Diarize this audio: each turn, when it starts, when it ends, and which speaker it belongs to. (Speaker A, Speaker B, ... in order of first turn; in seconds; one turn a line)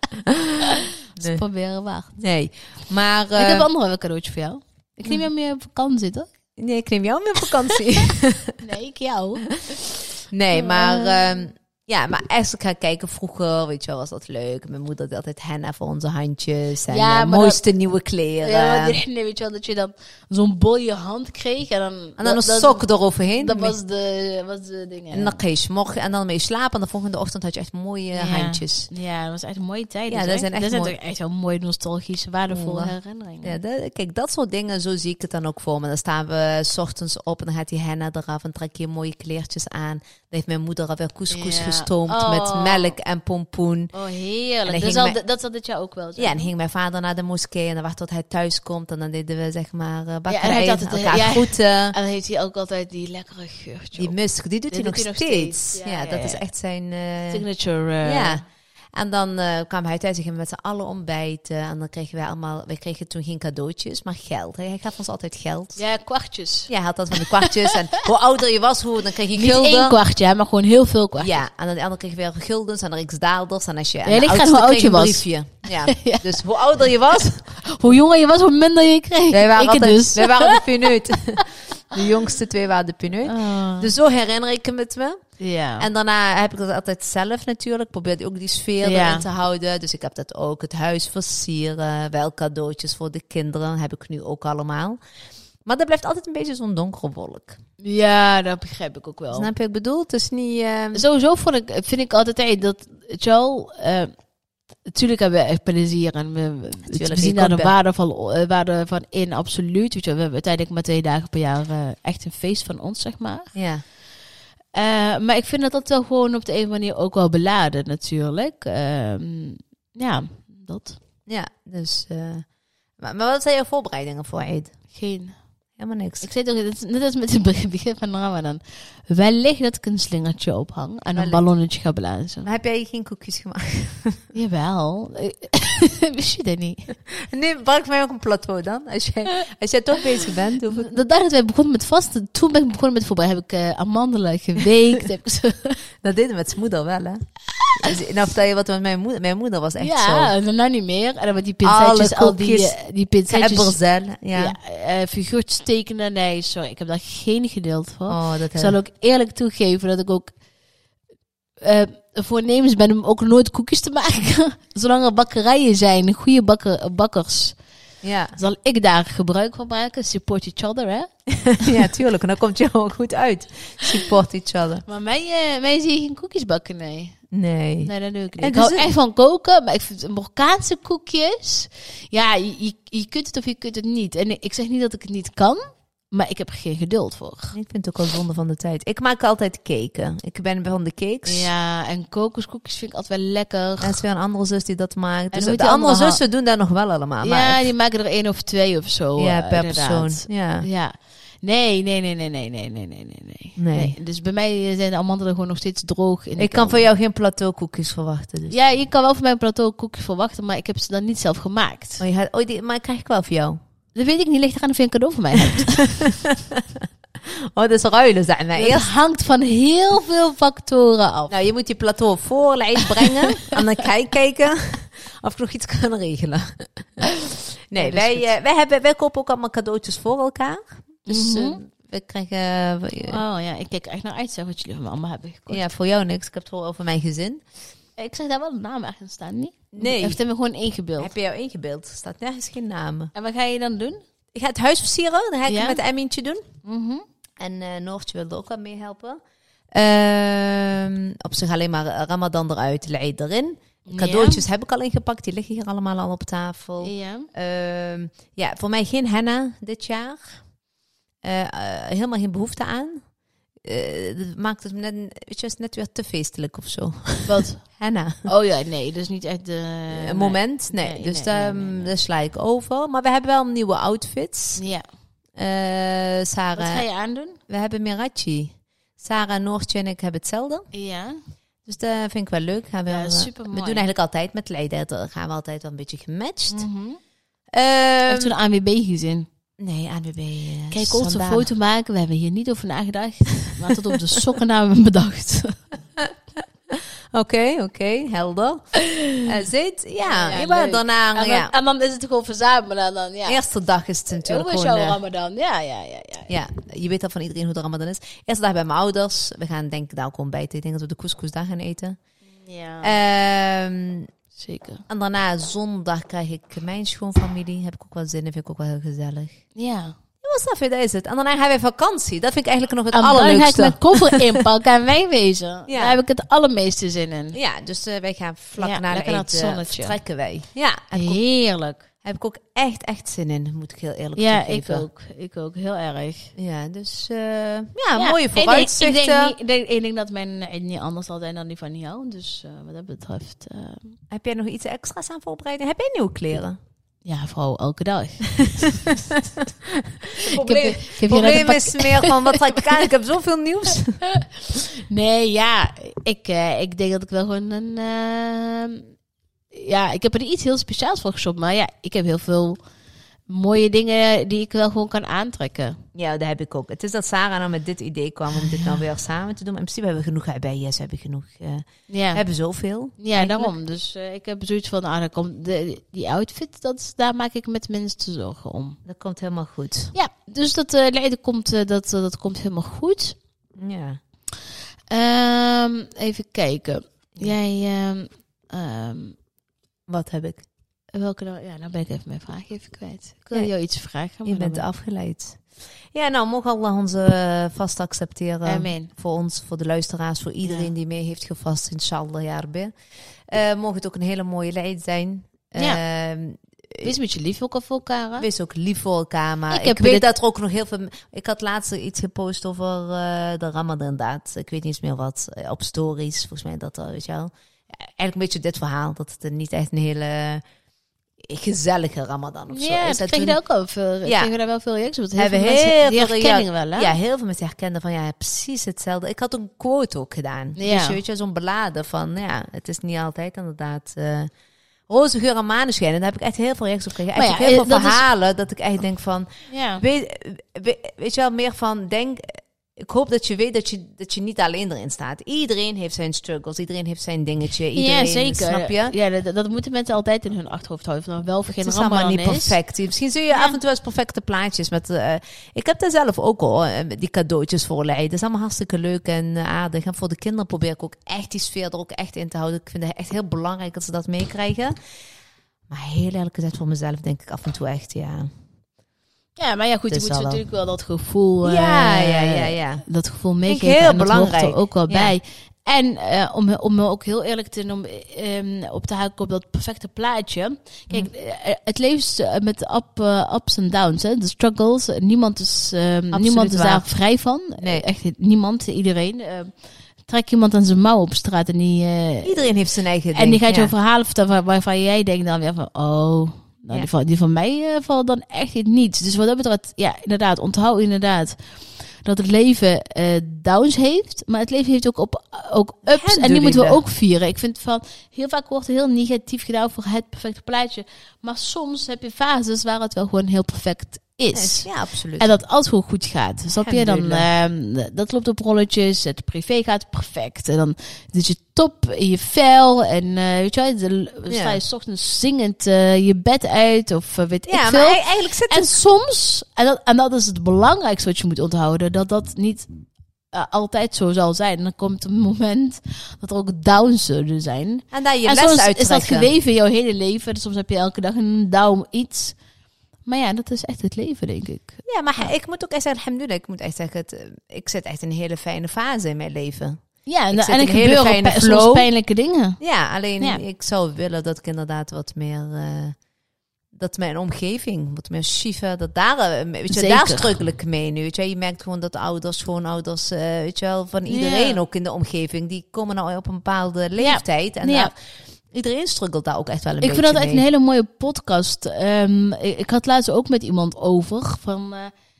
Speaker A: 0.1-1.4
Speaker B: 0.6-2.2
Speaker A: 2.2-3.7
Speaker B: 3.4-6.3
Speaker A: 6.6-8.6
Speaker B: 8.6-11.4
Speaker A: 10.3-19.0
Speaker B: 16.9-17.6
Speaker B: 18.4-22.9
Speaker A: 22.2-23.8
Speaker B: 23.4-25.4
Speaker A: 25.1-28.9
Speaker B: 28.1-33.6
Speaker A: 30.1-30.9
Speaker A: 32.5-43.9
Speaker B: 41.3-43.0
Speaker B: 43.9-46.5
Speaker A: 44.6-45.2
Speaker A: 46.2-52.0
Speaker B: 50.3-54.2
Speaker A: 54.0-57.4
Speaker B: 54.7-56.5
Speaker B: 57.3-58.4
Speaker A: 58.0-58.4
Speaker A: 58.9-65.8
Speaker B: 65.8-68.0
Speaker A: 66.7-70.0
Speaker B: 69.3-71.3
Speaker A: 71.2-77.5
Speaker B: 74.1-76.4
Speaker B: 77.5-80.9
Speaker A: 79.3-85.2
Speaker B: 83.2-83.9
Speaker B: 85.4-85.9
Speaker A: 85.8-95.0
Speaker B: 88.8-89.3
Speaker A: 95.7-97.6
Speaker B: 97.8-99.5
Speaker A: 99.3-101.0
Speaker B: 100.9-104.1
Speaker B: 104.9-113.5
Speaker A: 106.9-107.7
Speaker A: 113.5-113.8
Speaker B: 114.8-121.0
Speaker A: 121.3-122.5
Speaker A: 123.0-124.7
Speaker B: 124.9-125.4
Speaker A: 125.8-126.3
Speaker B: 126.2-132.5
Speaker A: 131.2-131.4
Speaker A: 132.4-134.2
Speaker B: 134.3-136.9
Speaker A: 137.1-140.9
Speaker B: 140.7-145.8
Speaker A: 146.0-147.2
Speaker B: 147.6-147.9
Speaker A: 147.8-150.3
Speaker B: 149.8-153.8
Speaker A: 151.6-152.8
Speaker A: 153.3-154.6
Speaker B: 154.3-160.3
Speaker A: 158.1-158.8
Speaker B: 161.6-167.6
Speaker A: 168.0-168.4
Speaker B: 168.4-171.1
Speaker A: 171.4-174.8
Speaker B: 174.9-177.2
Speaker A: 177.3-178.9
Speaker B: 177.8-187.6
Speaker A: 187.5-191.5
Speaker B: 191.2-194.0
Speaker A: 193.8-197.7
Speaker B: 195.3-196.2
Speaker B: 197.2-206.8
Speaker A: 199.2-200.7
Speaker A: 203.6-204.0
Speaker A: 206.4-208.6
Speaker B: 208.5-212.0
Speaker A: 212.0-213.6
Speaker B: 213.9-216.2
Speaker A: 215.6-218.9
Speaker B: 218.6-221.3
Speaker A: 221.3-227.1
Speaker B: 223.0-223.6
Speaker A: 227.7-233.2
Speaker B: 227.8-228.3
Speaker B: 231.1-231.6
Speaker B: 233.1-235.7
Speaker A: 235.5-237.4
Speaker B: 238.0-241.1
Speaker A: 239.7-240.2
Speaker A: 241.0-243.1
Speaker B: 243.2-244.0
Speaker A: 244.3-246.4
Speaker B: 245.5-245.8
Speaker B: 246.7-247.1
Speaker A: 247.4-249.2
Speaker A: 249.7-260.4
Speaker B: 253.9-254.4
Speaker B: 256.8-257.3
Speaker A: 261.2-263.1
Speaker A: 263.6-268.3
Speaker B: 267.3-267.6
Speaker B: 268.2-271.9
Speaker A: 269.9-274.6
Speaker B: 274.6-274.9
Speaker A: 275.4-276.9
Speaker B: 276.6-277.4
Speaker A: 277.4-280.7
Speaker B: 280.7-281.2
Speaker A: 281.6-286.7
Speaker B: 282.9-283.8
Speaker B: 286.5-287.0
Speaker A: 287.5-288.3
Speaker B: 288.1-289.3
Speaker A: 289.6-291.5
Speaker B: 290.7-295.6
Speaker A: 296.7-298.7
Speaker B: 298.9-299.2
Speaker A: 299.2-301.5
Speaker B: 300.0-303.4
Speaker A: 303.3-305.0
Speaker B: 304.1-306.3
Speaker A: 306.3-312.0
Speaker B: 312.4-312.9
Speaker A: 312.8-314.1
Speaker B: 314.4-314.8
Speaker A: 314.9-319.4
Speaker B: 319.6-320.0
Speaker A: 320.2-324.5
Speaker B: 322.9-327.4
Speaker A: 325.7-326.0
Speaker A: 327.3-331.2
Speaker B: 328.6-330.0
Speaker B: 330.9-331.9
Speaker A: 332.0-334.9
Speaker B: 334.2-336.3
Speaker A: 336.4-339.4
Speaker B: 338.0-344.0
Speaker A: 344.1-346.6
Speaker B: 347.1-349.0
Speaker A: 348.4-354.0
Speaker B: 350.2-352.9
Speaker B: 354.0-358.9
Speaker B: 359.5-362.6
Speaker B: 363.3-365.8
Speaker A: 365.9-373.6
Speaker B: 368.3-368.9
Speaker B: 371.9-372.2
Speaker B: 373.0-378.8
Speaker A: 378.9-379.9
Speaker B: 379.9-383.2
Speaker A: 383.6-384.0
Speaker B: 384.9-389.2
Speaker A: 389.9-390.4
Speaker B: 390.9-394.6
Speaker A: 394.2-395.4
Speaker A: 395.9-402.7
Speaker B: 398.4-398.9
Speaker B: 400.4-400.7
Speaker A: 403.3-406.9
Speaker B: 406.8-408.3
Speaker A: 408.2-420.4
Speaker B: 409.5-410.1
Speaker A: 421.2-423.4
Speaker B: 422.5-426.9
Speaker A: 424.1-424.3
Speaker A: 425.2-434.3
Speaker B: 430.6-431.0
Speaker A: 434.9-448.9
Speaker B: 437.1-438.1
Speaker B: 439.5-439.8
Speaker B: 447.7-452.6
Speaker A: 451.6-464.8
Speaker A: 465.7-468.3
Speaker B: 469.4-489.5
Speaker A: 469.9-470.4
Speaker A: 471.4-472.9
Speaker A: 473.5-475.1
Speaker A: 486.1-486.9
Speaker A: 487.6-487.9
Speaker B: 490.1-492.5
Speaker A: 492.2-493.7
Speaker B: 493.1-501.4
Speaker B: 502.0-532.7
Speaker A: 505.9-506.8
Speaker A: 514.3-515.3
Speaker A: 516.6-517.3
Speaker A: 524.3-524.6
Speaker A: 527.5-528.8
Speaker B: 533.3-542.4
Speaker A: 537.9-539.3
Speaker B: 543.1-545.3
Speaker A: 544.9-549.8
Speaker B: 550.1-552.6
Speaker A: 550.3-551.9
Speaker A: 552.6-556.0
Speaker A: 556.8-567.9
Speaker B: 559.7-560.4
Speaker B: 564.1-564.6
Speaker B: 567.0-567.9
Speaker A: 568.5-570.5
Speaker B: 569.8-574.9